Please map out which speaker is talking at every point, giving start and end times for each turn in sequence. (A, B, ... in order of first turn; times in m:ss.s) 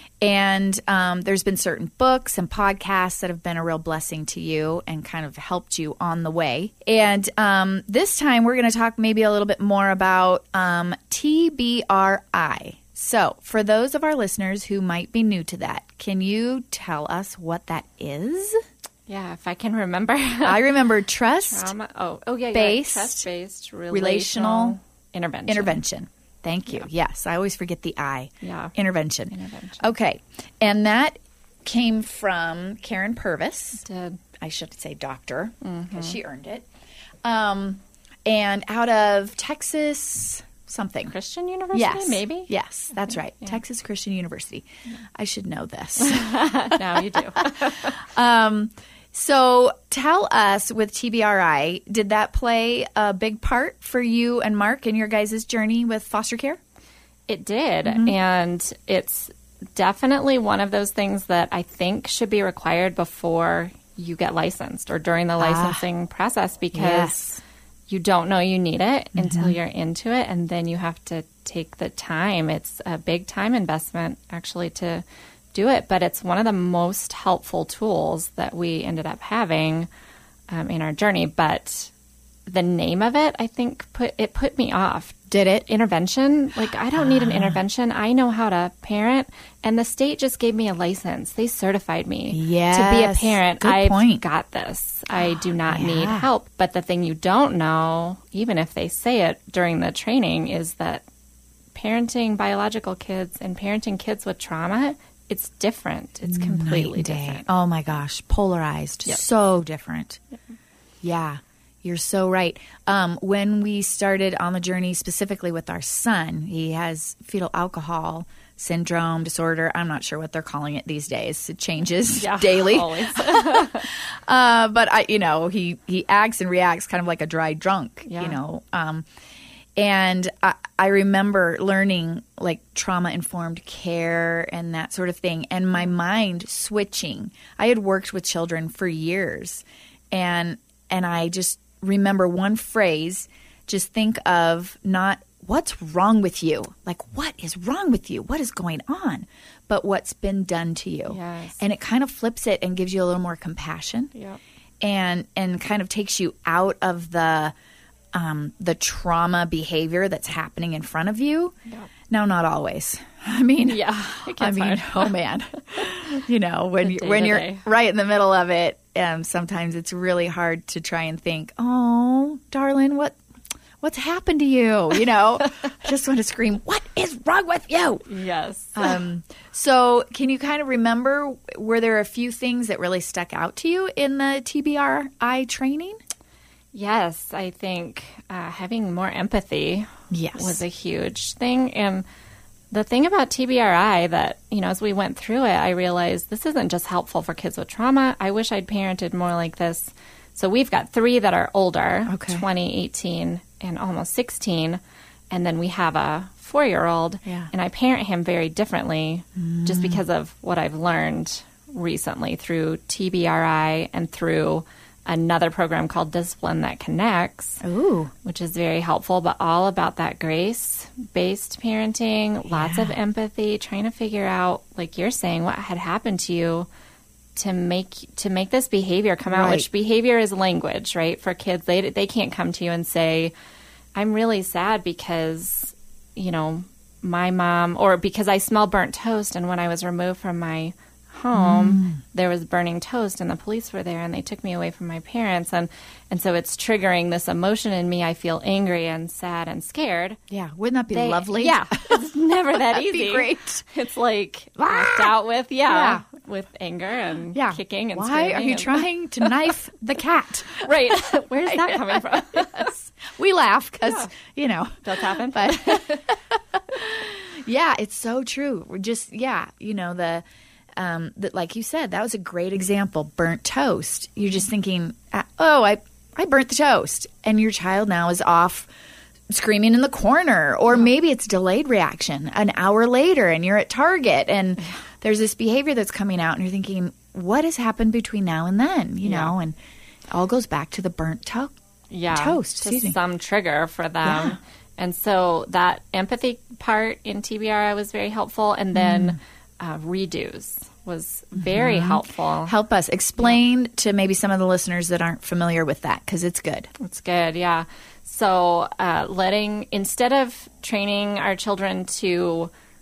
0:00.2-0:18.6 A
0:19.1-0:20.8 B
0:20.4-0:21.7 A
0:21.4-0:25.8 B
0:22.5-0:23.3 A
0:23.9-0:24.8 A
0:25.5-0:33.8 A
0:28.4-0:28.7 B
0:29.3-0:29.8 B
0:33.8-0:34.2 B
0:34.4-0:36.6 A
0:35.6-0:36.2 B
0:37.2-0:41.1 A
0:41.1-0:42.5 B
0:41.7-0:56.6 A
0:43.1-0:43.6 B
0:46.0-0:47.9 B
0:57.3-1:19.9 B
0:57.8-0:58.1 A
1:05.4-1:05.9 A
1:06.7-1:07.4 A
1:09.1-1:09.6 A
1:20.5-1:21.9 B
1:22.5-1:41.0 B
1:25.3-1:25.6 A
1:26.9-1:27.6 A
1:32.3-1:34.2 A
1:35.1-1:36.3 A
1:41.7-1:47.4 B
1:46.2-1:50.2 A
1:51.0-2:09.0 A
2:02.2-2:03.9 B
2:08.1-2:08.4 B
2:09.8-2:34.1 A
2:31.1-2:31.6 B
2:34.1-2:34.4 B
2:34.8-2:37.5 A
2:38.1-2:41.5 A
2:42.1-2:53.2 A
2:43.6-2:45.1 B
2:46.8-2:47.7 B
2:53.8-2:58.0 A
2:58.1-2:59.0 B
2:58.7-3:06.0 A
3:06.7-3:12.0 B
3:10.1-3:10.6 A
3:12.7-3:37.6 B
3:22.1-3:22.4 A
3:27.2-3:27.5 A
3:29.4-3:30.0 A
3:37.6-3:38.1 A
3:38.2-3:46.7 B
3:42.5-3:43.0 A
3:47.4-3:53.3 B
3:49.3-3:49.7 A
3:53.9-4:10.2 B
4:01.3-4:02.0 A
4:10.3-4:13.6 A
4:10.9-4:19.4 B
4:14.6-4:16.0 A
4:17.3-4:30.2 A
4:20.6-4:22.9 B
4:23.8-4:24.1 B
4:24.8-4:26.1 B
4:30.8-4:38.7 A
4:39.3-4:49.6 A
4:49.0-4:49.3 B
4:50.1-4:51.5 A
4:51.9-5:02.5 B
4:52.1-4:53.0 A
4:54.0-4:54.4 A
4:58.7-4:59.2 A
5:01.3-5:06.7 A
5:06.8-5:12.5 B